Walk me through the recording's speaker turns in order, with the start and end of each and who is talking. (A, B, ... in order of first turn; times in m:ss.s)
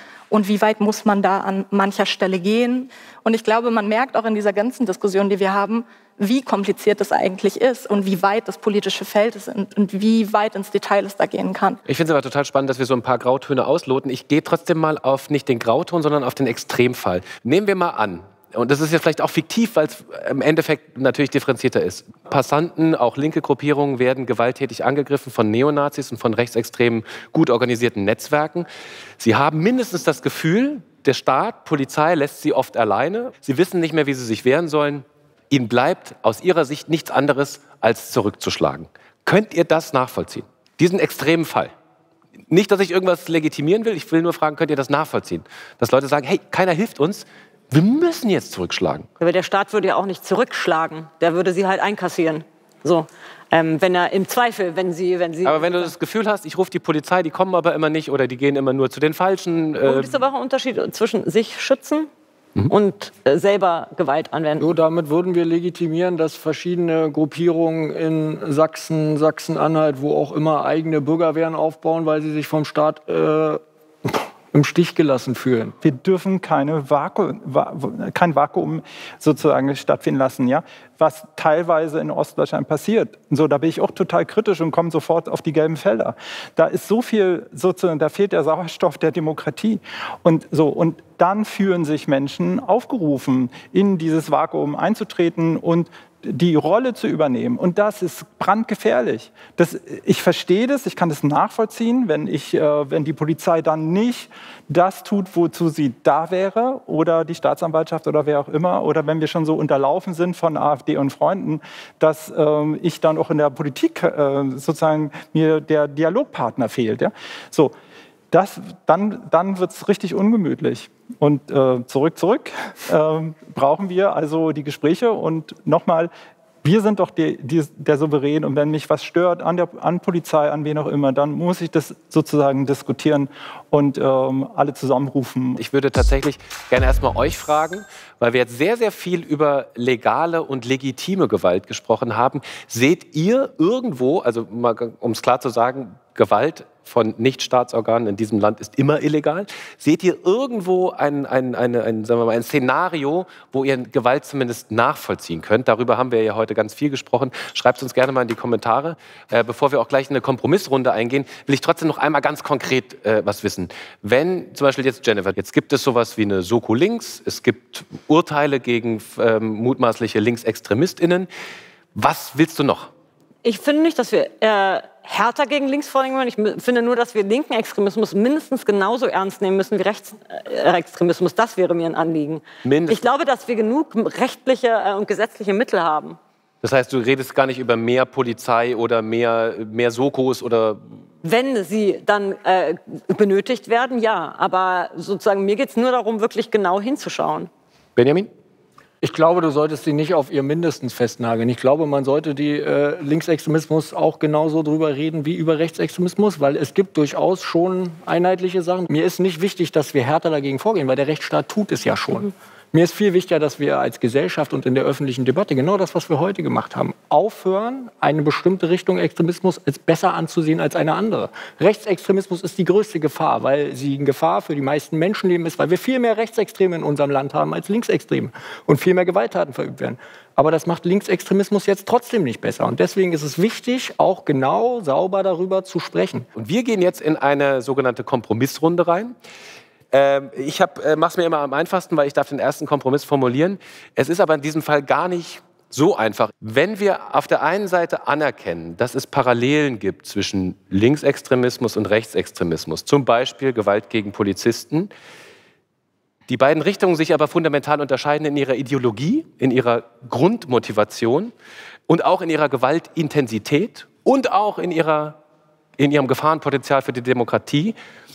0:00.3-0:11.8 A
0:11.9-0:28.7 B
0:29.2-0:41.7 B
0:42.5-0:49.1 B
0:49.2-0:55.9 C
0:55.4-1:00.2 B
0:59.8-1:02.1 C
1:02.7-1:04.7 C
1:04.6-1:15.8 D
1:15.8-1:57.7 E
1:58.3-2:06.1 E
2:06.6-2:15.6 E
2:15.6-2:51.3 B
2:52.0-2:52.9 B
2:53.4-3:06.2 C
3:02.6-3:03.0 B
3:06.6-3:10.9 B
3:11.2-3:17.5 C
3:18.0-3:18.3 B
3:19.0-3:56.3 D
3:56.4-3:59.2 B
3:59.9-4:14.9 B
4:16.3-4:21.3 B
4:21.9-4:25.2 B
4:25.8-4:27.8 B